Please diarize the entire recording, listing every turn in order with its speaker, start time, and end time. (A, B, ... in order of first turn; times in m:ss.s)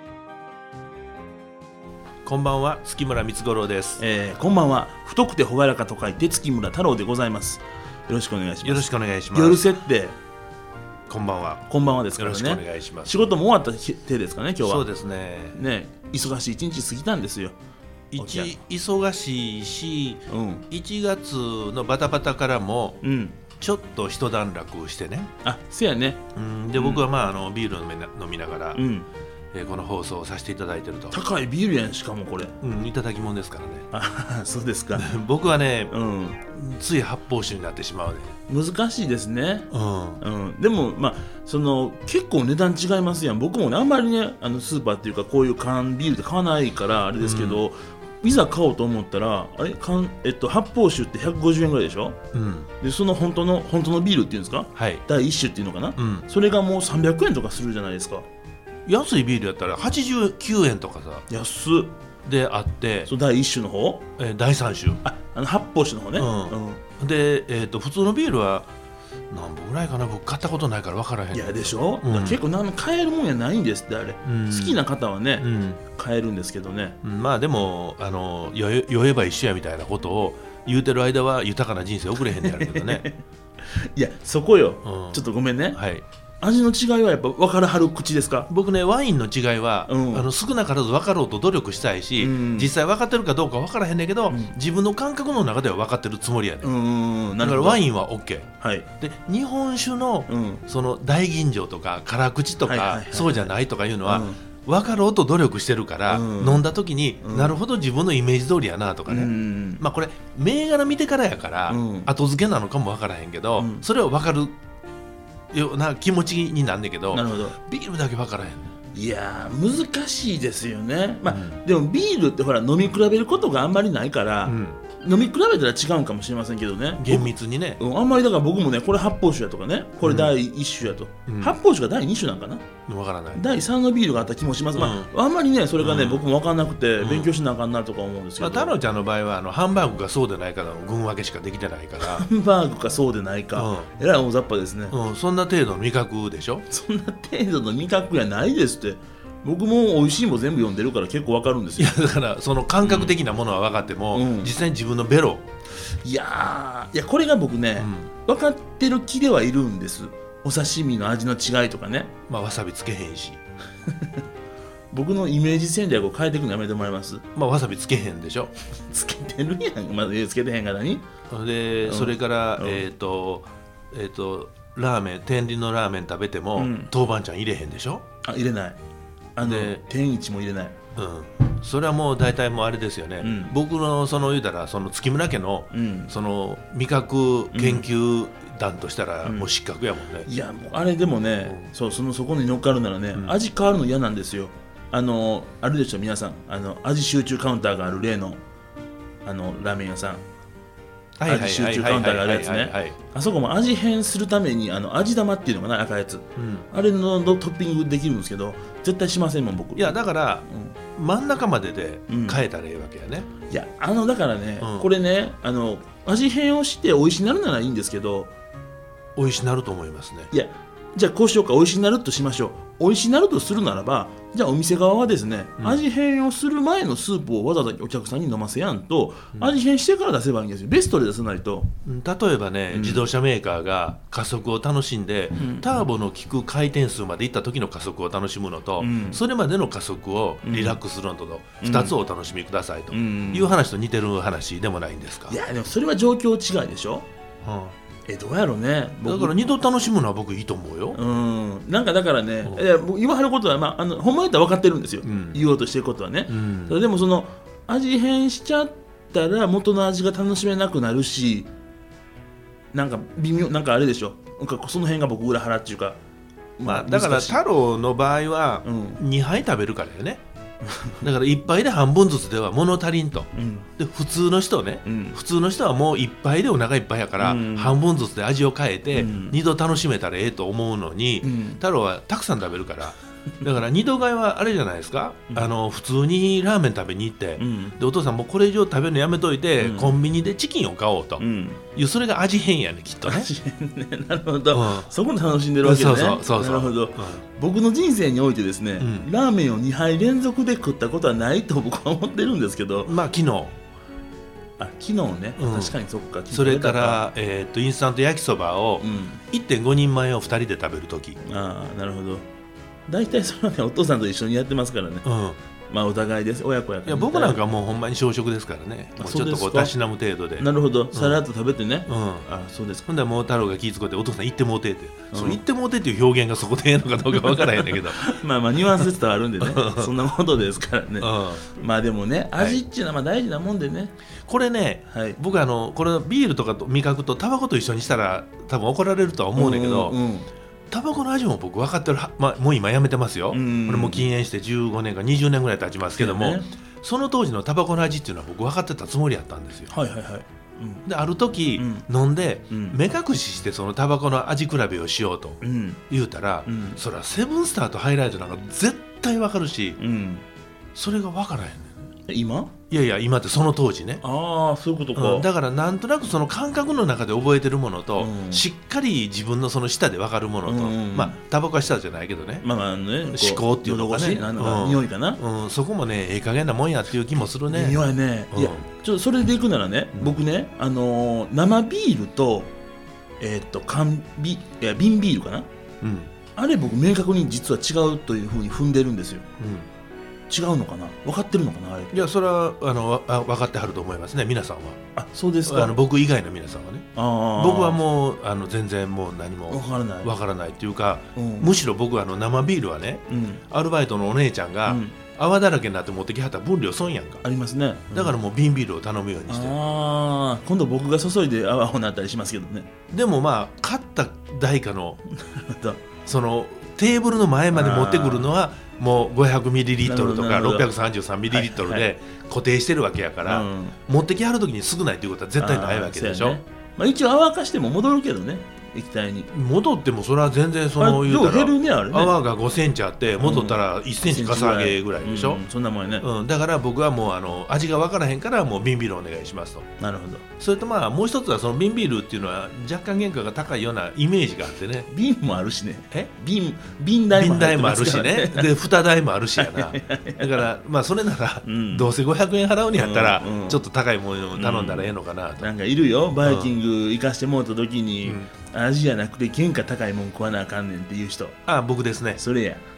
0:02.2-0:04.0 A
0:04.0-0:10.2 B
0:08.6-0:09.7 A
0:11.1-0:13.2 A
0:11.7-0:14.8 B
0:14.6-0:15.6 A
0:15.5-0:17.6 B
0:18.1-0:23.0 A
0:18.2-0:18.5 B
0:20.3-0:20.6 B
0:23.0-0:23.4 B
0:23.6-0:25.3 A
0:25.4-0:26.2 B
0:26.3-0:28.8 A
0:26.8-0:27.0 B
0:28.8-0:29.1 B
0:29.5-0:31.2 A
0:31.1-0:32.6 B
0:32.6-0:33.9 A
0:33.9-0:35.1 B
0:35.0-0:35.9 A
0:35.9-0:36.4 B
0:36.5-0:38.4 A
0:38.5-0:39.7 B
0:39.7-0:40.2 A
0:40.2-0:52.2 B
0:47.2-0:47.6 A
0:52.3-0:52.7 A
0:52.8-0:58.3 B
0:54.8-0:55.0 A
0:56.0-0:56.2 A
0:58.9-1:01.2 A
1:01.3-1:01.9 B
1:02.2-1:03.1 A
1:03.1-1:04.0 B
1:04.2-1:05.0 A
1:05.0-1:06.8 B
1:06.2-1:08.7 A
1:09.3-1:12.4 A
1:11.3-1:17.0 B
1:14.2-1:14.8 A
1:15.4-1:15.8 A
1:17.0-1:23.0 A
1:22.3-1:23.2 B
1:23.7-1:25.8 B
1:24.8-1:25.2 A
1:25.7-1:26.0 A
1:26.4-1:28.5 B
1:28.5-1:36.7 A
1:29.9-1:30.3 B
1:32.2-1:32.7 B
1:34.3-1:34.6 B
1:36.6-1:37.8 B
1:37.4-1:54.6 A
1:38.6-1:38.9 B
1:40.3-1:40.6 B
1:42.6-1:43.5 B
1:44.0-1:44.4 B
1:46.1-1:46.7 B
1:47.2-1:47.6 B
1:49.1-1:49.8 B
1:51.7-1:52.1 B
1:53.6-1:53.8 B
1:55.5-1:58.7 A
1:57.1-1:57.6 B
1:58.9-2:12.7 B
2:01.3-2:01.6 A
2:04.4-2:04.8 A
2:07.0-2:07.8 A
2:10.0-2:10.3 A
2:11.3-2:11.6 A
2:12.9-2:13.4 A
2:13.4-2:18.8 B
2:14.8-2:15.1 A
2:15.8-2:16.3 A
2:17.0-2:17.3 A
2:18.4-2:22.3 A
2:22.0-2:25.0 B
2:23.6-2:23.9 A
2:24.9-2:26.6 A
2:26.7-2:32.0 B
2:31.8-2:35.4 A
2:32.8-2:33.2 B
2:34.1-2:34.5 B
2:36.0-2:42.1 B
2:37.8-2:38.1 A
2:42.3-2:43.4 A
2:44.9-2:47.2 B
2:47.4-2:48.5 A
2:48.9-2:51.1 B
2:51.3-2:58.0 A
2:51.9-2:52.9 B
2:56.6-2:56.9 B
2:58.2-2:58.8 B
2:59.4-3:00.8 B
2:59.4-2:59.8 A
3:01.0-3:10.3 A
3:03.2-3:03.5 B
3:05.7-3:06.1 B
3:07.5-3:07.9 B
3:10.3-3:18.4 B
3:11.4-3:11.7 A
3:19.2-3:20.2 B
3:21.2-3:23.0 A
3:21.2-3:30.8 B
3:26.4-3:26.7 A
3:29.8-3:30.4 A
3:31.0-3:33.3 A
3:32.1-3:32.4 B
3:33.5-3:38.3 B
3:34.6-3:34.9 A
3:39.2-3:40.3 A
3:40.3-3:51.7 B
3:51.8-4:05.4 A
3:52.7-3:53.0 B
3:55.4-3:55.7 B
3:58.8-3:59.2 B
4:00.4-4:00.8 B
4:01.6-4:02.0 B
4:02.9-4:03.6 B
4:05.3-4:07.1 B
4:07.4-4:07.8 A
4:08.1-4:09.4 B
4:09.0-4:11.0 A
4:10.9-4:21.5 B
4:15.0-4:15.4 A
4:16.3-4:16.8 A
4:22.7-4:26.0 B
4:26.6-4:27.4 B
4:26.6-4:30.2 A
4:28.6-4:29.0 B
4:30.7-4:31.0 B
4:31.0-4:51.2 A
4:33.3-4:33.7 B
4:34.8-4:35.2 B
4:37.2-4:37.8 B
4:38.9-4:39.4 B
4:41.2-4:41.6 B
4:47.4-4:47.8 B
4:49.6-4:50.0 B
4:51.2-4:51.6 B
4:51.8-4:53.3 A
4:53.1-5:02.9 B
4:54.5-4:54.9 A
4:55.6-4:57.2 A
4:58.8-4:59.1 A
5:02.9-5:03.5 A
5:04.6-5:07.0 B
5:05.4-5:05.8 A
5:06.3-5:11.2 A
5:08.8-5:09.2 B
5:11.3-5:12.2 B
5:12.9-5:15.0 B
5:15.0-5:15.4 A
5:15.7-5:17.4 B
5:16.9-5:21.2 A
5:19.0-5:19.7 B
5:20.4-5:22.9 B
5:21.9-5:22.3 A
5:22.9-5:28.1 A
5:25.1-5:25.4 B
5:27.2-5:33.9 B
5:29.4-5:29.9 A
5:31.0-5:31.5 A
5:34.3-5:40.0 A
5:34.9-5:35.2 B
5:39.4-5:40.3 B
5:40.7-5:49.7 A
5:43.3-5:44.1 B
5:46.0-5:46.5 B
5:49.7-5:50.9 B
5:50.9-5:59.8 A
5:51.6-5:51.9 B
5:52.5-5:52.8 B
5:55.4-5:55.8 B
5:56.5-5:56.8 B
5:59.8-6:00.2 B
6:00.8-6:01.9 A
6:02.1-6:02.5 B
6:02.7-6:04.0 A
6:04.0-6:05.3 B
6:05.0-6:12.4 A
6:08.0-6:08.4 B
6:10.5-6:11.2 B
6:12.4-6:15.2 B
6:13.1-6:17.8 A
6:17.5-6:22.5 B
6:18.3-6:18.7 A
6:23.2-6:25.5 B
6:25.8-6:26.1 A
6:26.4-6:29.2 B
6:29.4-6:29.7 A
6:30.3-6:31.9 B
6:31.9-6:34.8 A
6:35.0-6:35.8 B
6:35.5-6:47.2 A
6:37.0-6:37.8 B
6:39.5-6:40.1 B
6:41.2-6:41.6 B
6:43.1-6:43.4 B
6:44.7-6:45.0 B
6:47.2-6:48.2 B
6:47.9-6:49.5 A
6:49.3-6:52.7 B
6:52.9-6:55.0 A
6:55.1-6:55.8 B
6:56.0-7:06.4 A
6:57.5-6:58.3 B
6:59.8-7:00.7 B
7:01.3-7:01.9 B
7:03.2-7:03.8 B
7:05.4-7:09.3 B
7:09.3-7:15.4 A
7:10.8-7:12.2 B
7:13.2-7:16.1 B
7:16.0-7:19.7 A
7:19.8-7:20.2 B
7:20.4-7:24.9 A
7:24.9-7:28.5 B
7:27.1-7:35.5 A
7:29.4-7:30.4 B
7:31.4-7:32.0 B
7:32.7-7:33.6 B
7:34.4-7:41.4 B
7:36.2-7:36.5 A
7:38.0-7:38.3 A
7:41.5-7:42.2 A
7:42.2-7:42.6 B